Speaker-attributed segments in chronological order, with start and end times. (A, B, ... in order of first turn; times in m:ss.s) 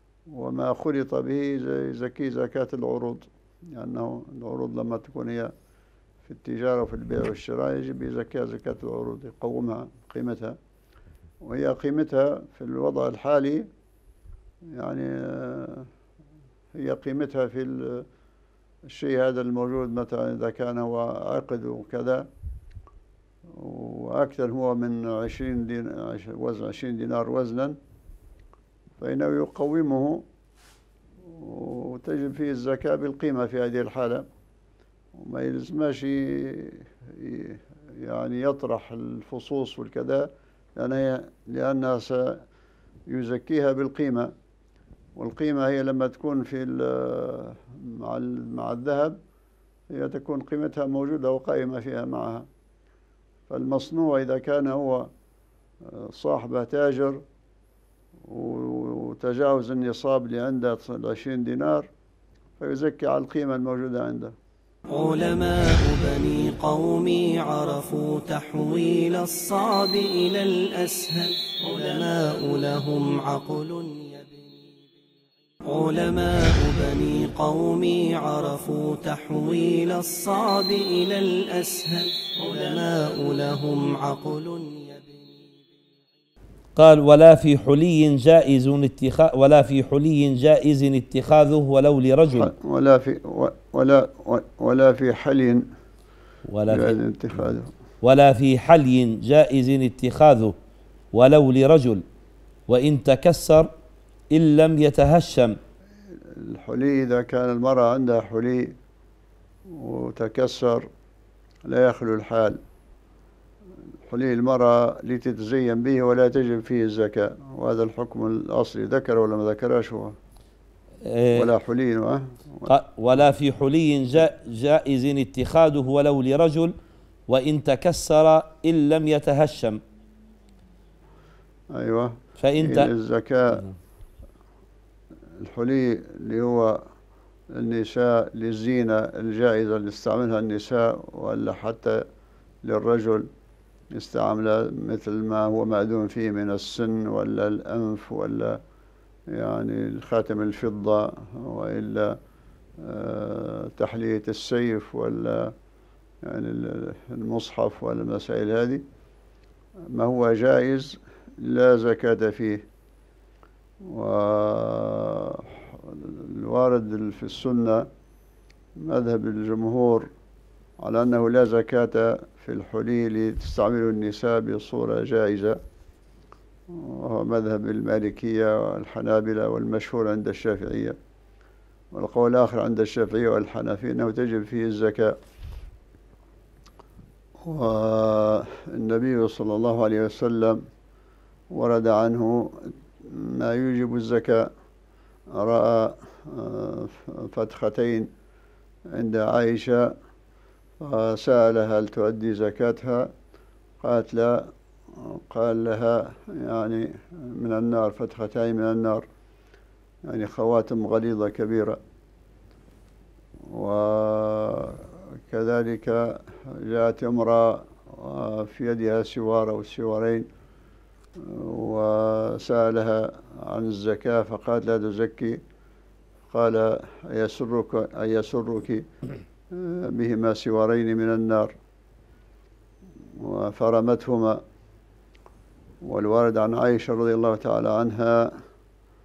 0:00.3-0:05.5 A
0:06.2-0:10.6 A
0:11.4-0:13.7 A
0:14.7-0:15.9 A
0:16.7-0:18.1 A
0:18.8-0:22.3 A
0:23.5-0:27.8 A
0:29.0-0:30.2 A
0:31.2-0:34.2 A
0:35.1-0:42.4 A
0:43.1-0:44.3 A
0:45.2-0:49.2 A
0:49.9-0:52.5 A
0:53.5-0:55.1 A
0:55.8-0:57.2 A
0:58.2-1:01.9 A
1:02.6-1:04.3 A
1:04.9-1:14.4 B
1:15.7-1:25.3 B
1:26.8-1:32.5 C
1:32.3-1:35.6 A
1:36.5-1:37.0 C
1:36.7-1:37.7 A
1:38.0-1:40.5 C
1:41.1-1:42.0 C
1:42.7-1:43.7 C
1:44.3-1:45.6 C
1:46.1-1:48.8 A
1:49.7-1:50.9 A
1:51.6-1:52.6 A
1:54.1-2:00.2 A
2:01.0-2:01.5 C
2:01.3-2:02.7 A
2:02.7-2:06.7 C
2:07.3-2:09.8 C
2:11.7-2:13.6 A
2:12.4-2:12.9 C
2:15.4-2:16.9 A
2:17.5-2:22.0 A
2:22.6-2:23.3 A
2:23.9-2:28.6 A
2:29.3-2:32.2 A
2:32.8-2:35.5 A
2:36.2-2:38.8 A
2:39.9-2:42.6 A
2:43.8-2:47.9 A
2:48.8-2:50.1 A
2:50.8-2:55.6 A
2:56.7-3:01.0 A
3:01.9-3:05.2 A
3:07.4-3:10.6 A
3:11.5-3:14.5 A
3:15.3-3:18.1 A
3:18.9-3:19.9 A
3:20.8-3:23.1 A
3:23.8-3:29.0 A
3:30.1-3:31.8 A
3:33.5-3:40.3 A
3:41.2-3:45.4 A
3:46.3-3:48.8 A
3:49.5-3:51.6 A
3:53.2-3:54.4 A
3:55.8-3:58.4 A